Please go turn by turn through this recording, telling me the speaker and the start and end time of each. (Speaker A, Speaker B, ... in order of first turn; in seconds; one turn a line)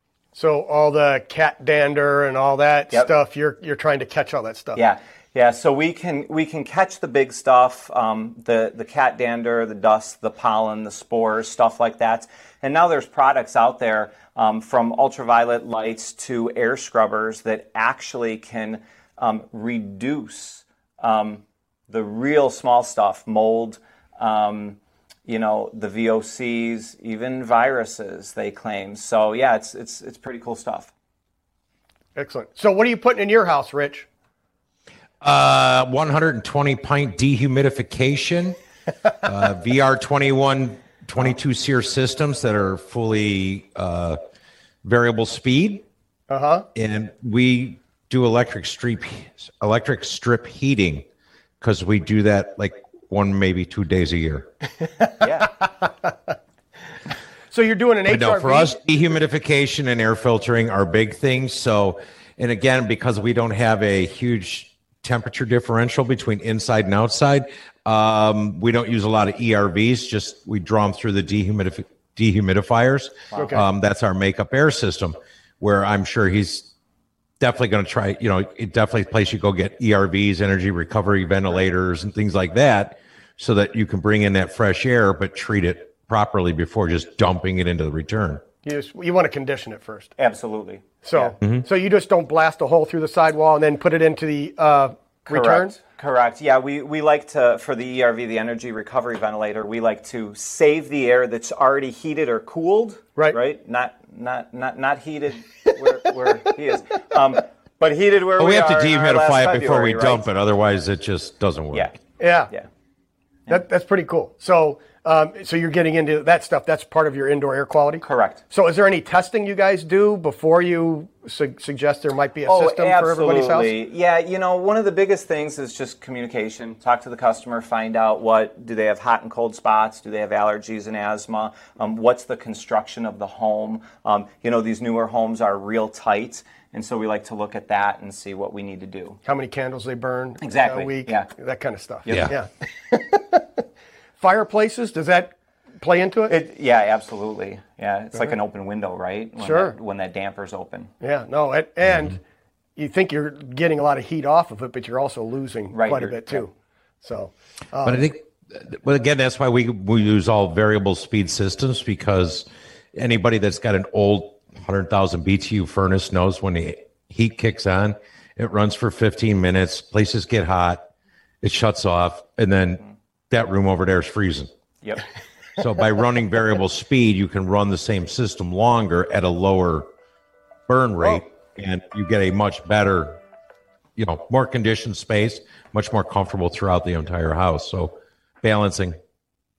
Speaker A: 0.3-4.8
Speaker B: 4.8-30.9
Speaker A: 32.1-34.1
Speaker C: 35.2-38.6
Speaker C: 39.2-44.2
Speaker C: 44.8-45.8
Speaker A: 46.3-46.7
Speaker C: 46.8-51.0
Speaker C: 51.6-54.5
Speaker B: 55.2-55.5
Speaker A: 55.4-56.1
Speaker A: 57.5-58.8
Speaker C: 58.1-76.7
Speaker B: 73.3-73.6
Speaker A: 73.3-73.7
Speaker C: 77.4-88.4
Speaker A: 88.6-90.1
Speaker B: 90.2-91.3
Speaker A: 91.0-95.8
Speaker B: 95.3-110.3
Speaker C: 108.4-112.0
Speaker A: 112.2-112.5
Speaker A: 113.5-123.7
Speaker B: 118.0-118.4
Speaker B: 122.5-139.2
Speaker A: 139.2-143.6
Speaker B: 140.4-141.3
Speaker B: 142.1-142.3
Speaker C: 142.1-142.3
Speaker A: 144.2-146.4
Speaker B: 146.3-150.9
Speaker A: 149.4-149.8
Speaker A: 151.0-152.2
Speaker A: 152.8-156.5
Speaker B: 155.7-156.4
Speaker A: 157.0-158.0
Speaker C: 157.8-170.9
Speaker C: 171.4-174.5
Speaker C: 175.6-179.9
Speaker C: 180.7-183.2
Speaker C: 184.0-189.0